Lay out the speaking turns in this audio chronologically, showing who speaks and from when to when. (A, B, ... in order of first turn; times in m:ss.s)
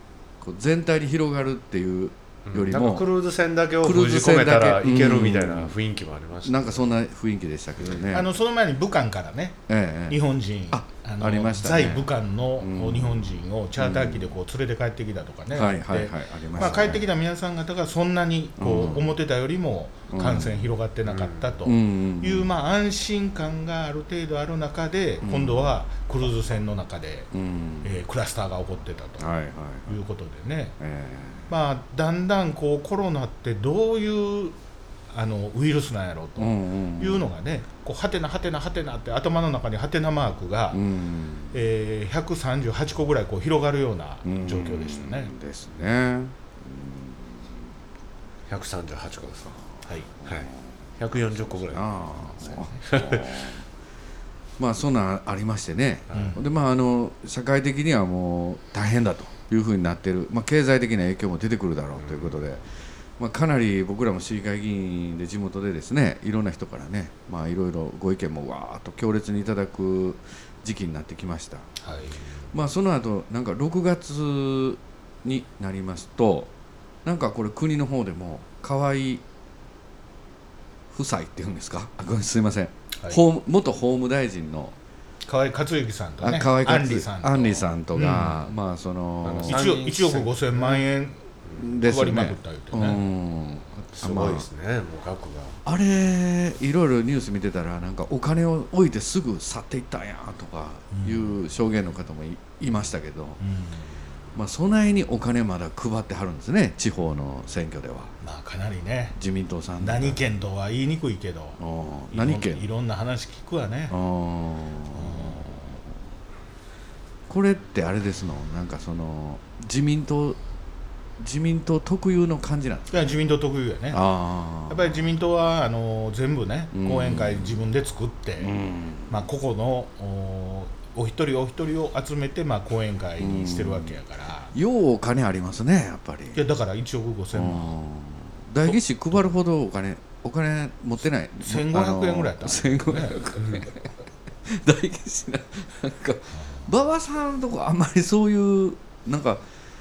0:00.4-0:03.1 A
0:02.5-0:06.9 B
0:03.8-0:05.8 A
0:06.4-0:08.3 A
0:08.1-0:27.3 C
0:09.7-0:14.4 A
0:15.5-0:17.1 A
0:18.6-0:19.1 A
0:20.1-0:20.8 A
0:21.1-0:21.6 B
0:21.6-0:22.5 A
0:25.2-0:25.8 A
0:27.3-0:28.0 A
0:27.8-0:29.3 C
0:29.2-0:30.0 A
0:29.9-0:30.8 C
0:30.8-0:31.5 A
0:31.5-0:34.6 C
0:35.1-0:40.8 C
0:36.4-0:37.3 A
0:40.7-0:41.6 A
0:41.5-0:45.3 C
0:44.2-0:47.6 A
0:48.5-0:49.5 B
0:49.6-0:50.6 A
0:50.3-0:53.4 B
0:51.7-0:53.6 A
0:54.6-1:02.6 A
0:56.1-0:56.4 B
0:56.1-0:56.4 C
1:02.0-1:02.4 B
1:03.2-1:11.7 A
1:11.8-1:12.3 C
1:12.5-1:16.5 A
1:17.0-1:19.2 A
1:20.9-1:24.8 A
1:25.2-1:28.4 C
1:26.2-1:29.7 A
1:29.2-1:30.8 B
1:29.5-1:33.0 C
1:31.6-1:34.5 A
1:34.0-1:35.6 B
1:35.7-1:43.4 A
1:40.9-1:41.4 C
1:43.4-1:43.9 C
1:44.4-1:48.1 A
1:48.2-1:49.2 C
1:49.2-1:50.2 A
1:49.8-1:51.6 C
1:51.6-1:52.7 A
1:52.1-1:54.0 C
1:53.9-1:55.8 A
1:54.9-1:55.8 C
1:57.3-2:00.4 A
2:01.2-2:03.2 A
2:02.9-2:04.0 C
2:03.9-2:05.1 A
2:04.7-2:08.5 C
2:06.7-2:07.6 A
2:08.4-2:09.3 A
2:09.1-2:14.5 C
2:13.2-2:14.0 A
2:14.5-2:16.4 A
2:16.4-2:17.8 C
2:17.3-2:23.9 A
2:21.4-2:23.3 C
2:24.4-2:29.4 A